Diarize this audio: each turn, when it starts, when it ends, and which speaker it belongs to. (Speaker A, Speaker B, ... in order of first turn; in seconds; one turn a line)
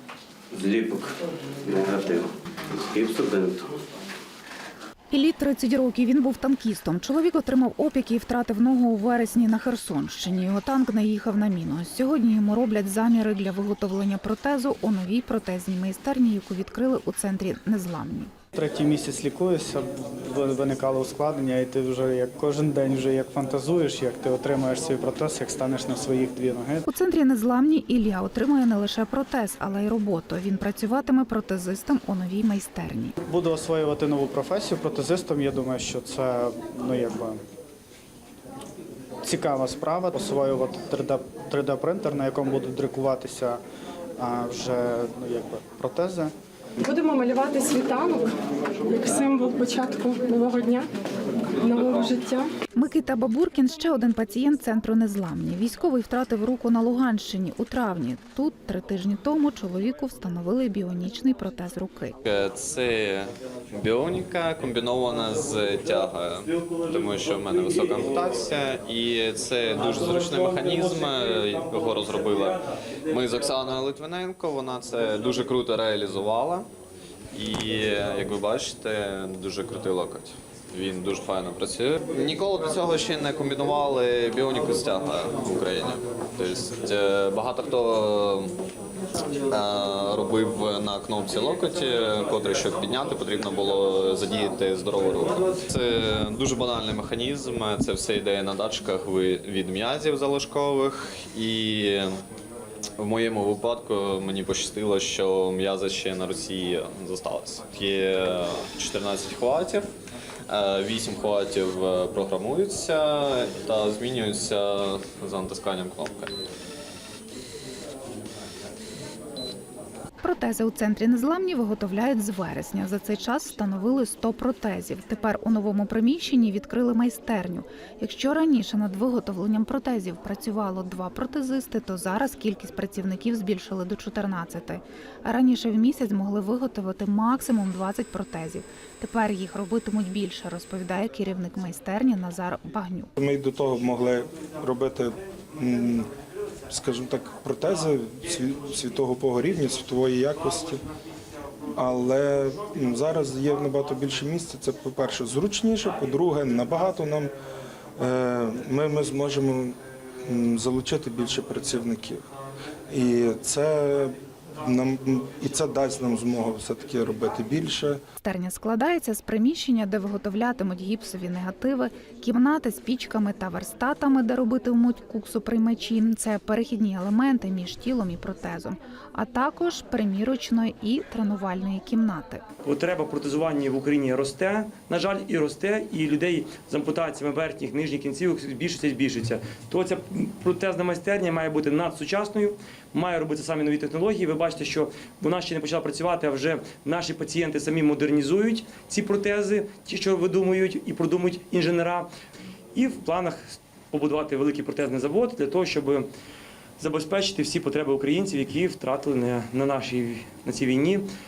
Speaker A: 0.5-3.7
Speaker B: 5.1-18.3
Speaker C: 18.6-26.8
Speaker B: 26.9-33.2
Speaker C: 33.2-37.4
Speaker C: 39.2-43.6
Speaker C: 44.2-46.3
Speaker D: 46.9-48.3
Speaker D: 48.9-50.9
Speaker D: 51.6-52.5
Speaker E: 51.7-52.2
Speaker B: 52.8-62.2
Speaker E: 62.2-76.7
Speaker E: 77.3-88.5
Speaker E: 89.5-102.2
Speaker E: 103.0-109.9
Speaker E: 110.5-116.3
Speaker B: 120.2-143.1
Speaker F: 143.2-146.1
Speaker F: 146.7-150.8
Speaker F: 151.8-157.3
Speaker F: 158.0-162.2
Speaker F: 162.9-168.0
Speaker B: 168.2-182.4
Speaker G: 182.7-202.1
Speaker G: 202.8-206.1
Speaker G: 206.8-211.0